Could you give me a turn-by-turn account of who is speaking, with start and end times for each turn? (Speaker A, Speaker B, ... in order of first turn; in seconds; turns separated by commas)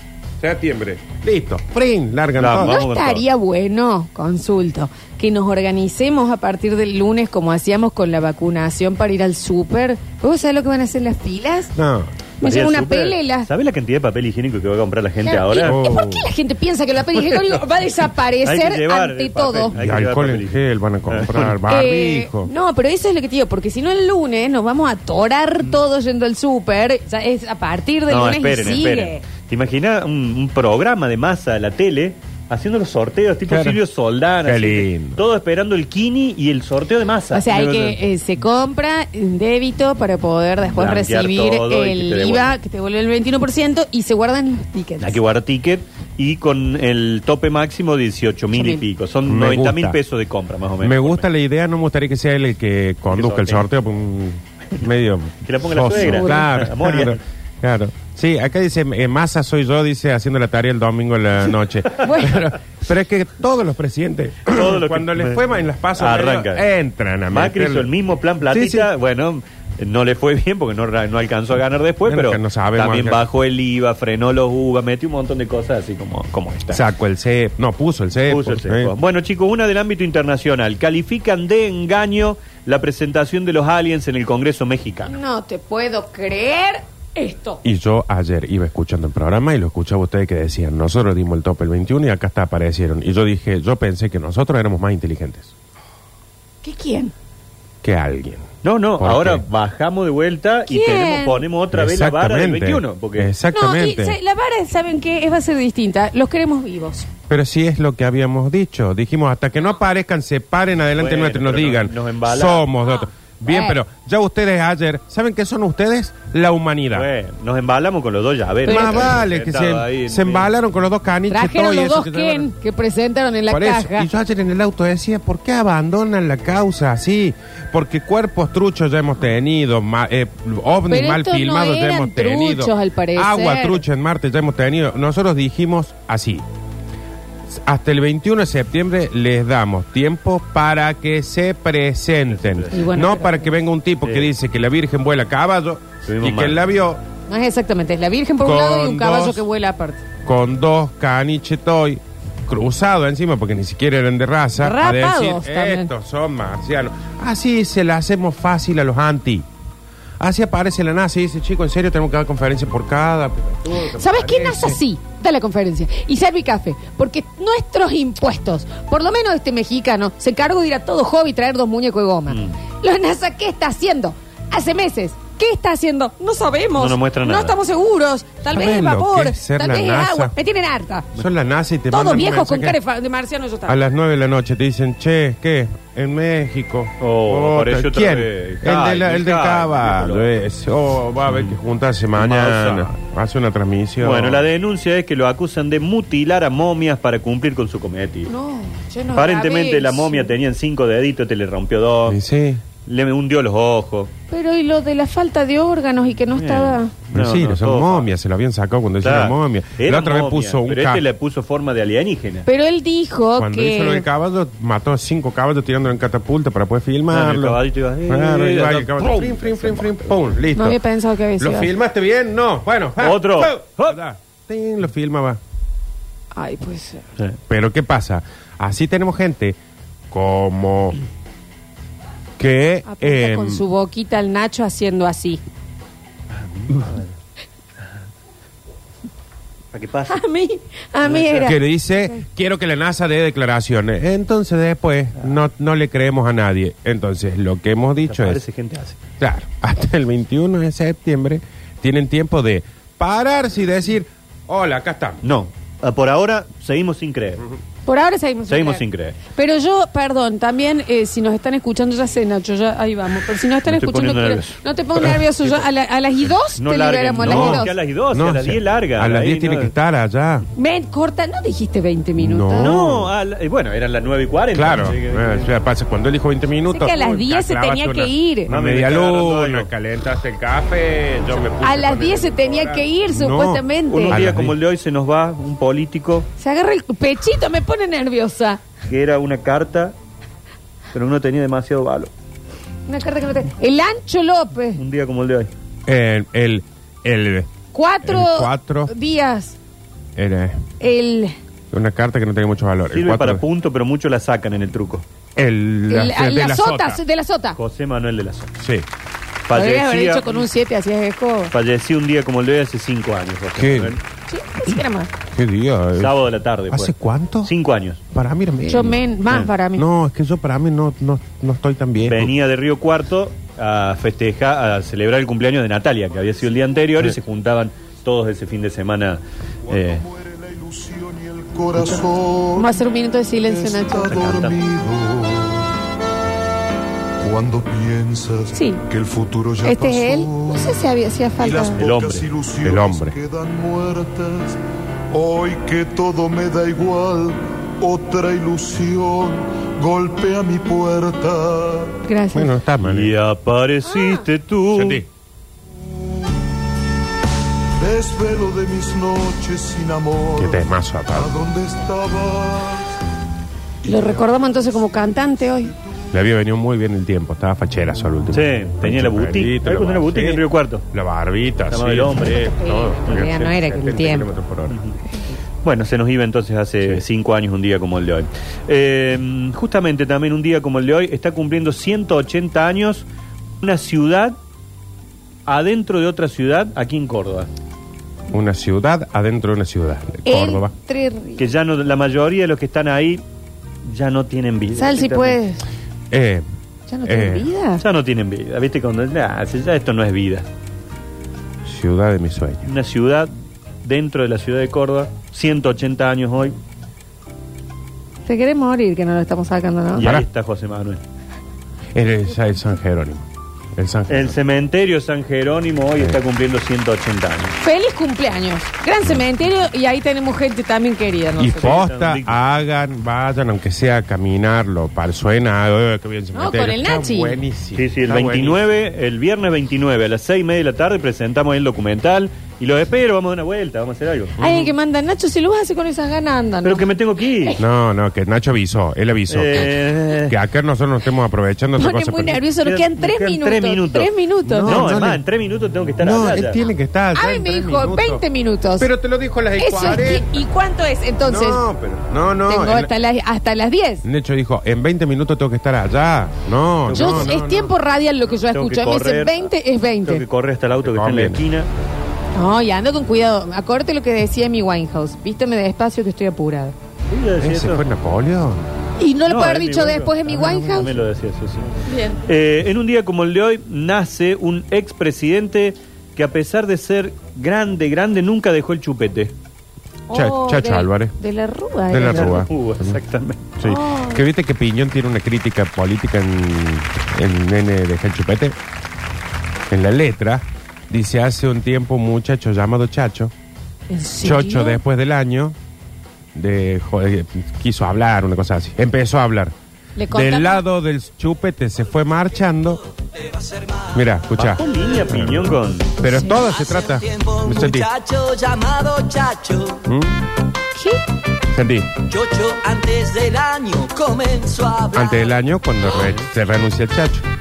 Speaker A: 0.4-2.8, Speaker B: 2.4-3.2, Speaker C: 2.6-11.7, Speaker A: 11.8-12.1, Speaker C: 12.4-13.5, Speaker B: 12.4-15.8, Speaker C: 15.2-19.7, Speaker A: 15.6-16.3, Speaker B: 17.2-17.6, Speaker B: 18.4-21.6, Speaker A: 19.7-22.5, Speaker C: 21.7-29.2, Speaker B: 28.1-38.0, Speaker A: 33.5-33.8, Speaker A: 34.4-35.2, Speaker C: 37.3-45.2, Speaker B: 40.8-42.5, Speaker B: 45.0-51.3, Speaker C: 48.5-48.8, Speaker A: 49.2-50.0, Speaker A: 50.8-67.9, Speaker B: 53.1-53.7, Speaker B: 55.4-57.2, Speaker C: 56.0-56.5, Speaker C: 62.0-62.3, Speaker B: 64.5-65.4, Speaker B: 66.0-66.7, Speaker B: 67.3-76.8, Speaker A: 68.5-68.9, Speaker A: 72.1-73.2, Speaker A: 76.7-78.9, Speaker B: 78.3-85.1, Speaker C: 85.0-87.6, Speaker A: 87.6-95.5, Speaker C: 96.6-97.1, Speaker A: 97.8-99.4, Speaker B: 98.6-103.3, Speaker C: 100.7-101.4, Speaker A: 101.7-104.2, Speaker C: 103.5-107.1, Speaker A: 107.3-117.1, Speaker B: 111.0-112.7, Speaker C: 112.8-113.8, Speaker B: 116.9-120.5, Speaker C: 118.6-119.2, Speaker A: 118.6-122.5, Speaker C: 121.3-124.1, Speaker A: 123.5-136.4, Speaker C: 130.9-133.8, Speaker A: 137.5-147.0, Speaker B: 142.3-143.0, Speaker C: 142.7-143.5, Speaker B: 144.0-144.3, Speaker B: 146.0-146.6, Speaker C: 147.3-150.0, Speaker A: 148.4-149.4, Speaker A: 150.2-159.4, Speaker C: 154.6-155.9, Speaker A: 160.2-164.8, Speaker C: 163.9-181.1, Speaker B: 172.3-172.6, Speaker B: 176.8-177.6, Speaker A: 178.5-180.3, Speaker A: 181.1-182.8, Speaker C: 181.9-183.8, Speaker A: 183.7-194.5, Speaker B: 187.0-190.4, Speaker B: 191.3-191.6, Speaker B: 192.1-192.9, Speaker B: 194.0-198.3, Speaker C: 198.3-200.3, Speaker B: 199.1-202.2, Speaker A: 202.1-202.6, Speaker B: 202.8-204.1, Speaker C: 204.3-206.9, Speaker B: 206.3-208.1, Speaker A: 207.1-211.0, Speaker B: 209.0-212.5, Speaker C: 212.4-214.1, Speaker A: 213.4-220.8, Speaker B: 217.1-220.3, Speaker C: 220.5-221.7, Speaker A: 221.4-225.4, Speaker B: 223.0-224.0, Speaker C: 226.3-227.0, Speaker A: 227.5-229.6, Speaker A: 230.1-231.0, Speaker A: 232.4-233.6, Speaker C: 232.8-235.4, Speaker B: 236.3-237.1, Speaker B: 239.7-240.2, Speaker C: 240.1-242.2, Speaker A: 241.3-248.4, Speaker B: 248.1-249.0, Speaker A: 249.2-255.2, Speaker B: 255.2-257.4, Speaker C: 257.9-258.8, Speaker B: 258.5-259.2, Speaker C: 259.3-267.8, Speaker B: 263.6-265.6, Speaker B: 266.6-269.7, Speaker A: 267.2-270.4, Speaker C: 270.6-272.7, Speaker A: 272.2-273.1, Speaker B: 272.6-275.6, Speaker A: 274.5-284.6, Speaker C: 276.7-278.5, Speaker B: 278.5-279.7, Speaker C: 281.6-284.2, Speaker B: 283.9-286.3, Speaker C: 286.4-288.6, Speaker B: 288.9-289.9, Speaker B: 290.9-292.1, Speaker C: 292.9-294.8, Speaker B: 294.8-295.5, Speaker A: 295.9-297.5, Speaker C: 297.7-299.6, Speaker A: 298.0-298.9, Speaker A: 300.1-300.6, Speaker C: 300.8-301.3, Speaker A: 301.7-303.4, Speaker B: 302.9-305.0, Speaker A: 305.4-307.0, Speaker C: 305.9-307.6, Speaker B: 307.5-308.5, Speaker A: 308.6-308.9, Speaker B: 309.5-310.5, Speaker C: 309.5-311.5, Speaker B: 311.5-314.0, Speaker A: 313.5-313.9, Speaker C: 314.3-315.1, Speaker A: 315.3-316.1, Speaker B: 315.9-318.0, Speaker A: 316.7-317.5, Speaker A: 318.1-319.0, Speaker C: 318.7-319.9, Speaker A: 319.8-322.3, Speaker B: 322.0-330.0, Speaker D: 329.7-332.8, Speaker C: 332.6-334.3, Speaker D: 333.3-335.7, Speaker B: 334.1-334.6, Speaker D: 337.2-340.8, Speaker C: 338.5-338.8, Speaker C: 339.6-341.8, Speaker D: 341.4-344.6, Speaker B: 341.8-342.3, Speaker A: 342.6-343.1, Speaker D: 345.1-352.0, Speaker C: 352.1-352.5, Speaker A: 352.3-353.1, Speaker B: 352.8-355.0, Speaker C: 353.9-354.2, Speaker A: 354.7-355.1, Speaker D: 357.8-362.9, Speaker A: 360.4-361.3, Speaker D: 363.8-365.4, Speaker C: 363.9-365.7, Speaker A: 366.1-370.4, Speaker B: 368.3-370.9, Speaker A: 370.9-374.9, Speaker B: 371.7-372.4, Speaker C: 372.4-374.3, Speaker B: 374.7-374.9, Speaker B: 375.6-383.1, Speaker B: 383.6-384.4, Speaker B: 385.5-387.5, Speaker A: 388.3-390.7, Speaker C: 390.2-391.5, Speaker B: 391.4-393.2, Speaker B: 393.8-395.4, Speaker C: 394.8-395.6, Speaker A: 396.1-396.4, Speaker C: 396.9-397.8, Speaker A: 397.0-397.5, Speaker B: 397.8-400.5, Speaker A: 401.6-402.7, Speaker B: 402.6-403.3, Speaker B: 403.8-406.6, Speaker C: 408.2-410.1, Speaker B: 409.9-411.0, Speaker A: 410.0-410.3, Speaker A: 411.9-413.2, Speaker A: 413.8-414.4, Speaker B: 414.1-417.5, Speaker C: 417.6-421.8, Speaker A: 421.4-428.6, Speaker B: 421.6-422.4, Speaker C: 426.3-427.4, Speaker B: 427.8-434.7, Speaker C: 434.4-437.6, Speaker B: 436.6-437.6, Speaker A: 437.6-442.4, Speaker B: 439.3-440.4, Speaker C: 441.8-445.0, Speaker B: 442.6-444.1, Speaker A: 444.4-445.2, Speaker B: 444.6-446.6, Speaker A: 446.0-448.2, Speaker C: 446.4-448.9, Speaker A: 448.8-450.3, Speaker C: 449.6-451.6, Speaker A: 451.3-452.9, Speaker C: 452.5-454.0, Speaker A: 454.0-457.7, Speaker B: 456.8-457.4, Speaker C: 456.9-460.2, Speaker B: 458.5-459.5, Speaker B: 460.0-461.7, Speaker A: 460.8-461.4, Speaker C: 462.3-466.7, Speaker B: 467.1-467.8, Speaker A: 467.4-468.6, Speaker C: 469.0-470.9, Speaker B: 469.3-471.7, Speaker C: 471.9-472.2, Speaker B: 472.2-479.3, Speaker C: 480.1-482.4, Speaker A: 480.1-481.1, Speaker A: 481.9-483.0, Speaker B: 482.1-483.5, Speaker A: 483.6-488.6, Speaker C: 483.6-484.2, Speaker A: 489.7-493.3, Speaker C: 493.9-494.8, Speaker A: 494.2-495.5, Speaker A: 496.3-499.5, Speaker C: 499.9-500.6, Speaker A: 500.1-502.8, Speaker E: 503.5-503.8, Speaker A: 503.9-507.9, Speaker B: 504.4-505.9, Speaker C: 506.0-506.4, Speaker E: 506.6-509.8, Speaker A: 509.9-510.1, Speaker C: 510.7-511.0, Speaker A: 511.5-511.9, Speaker E: 512.1-515.2, Speaker A: 514.9-517.2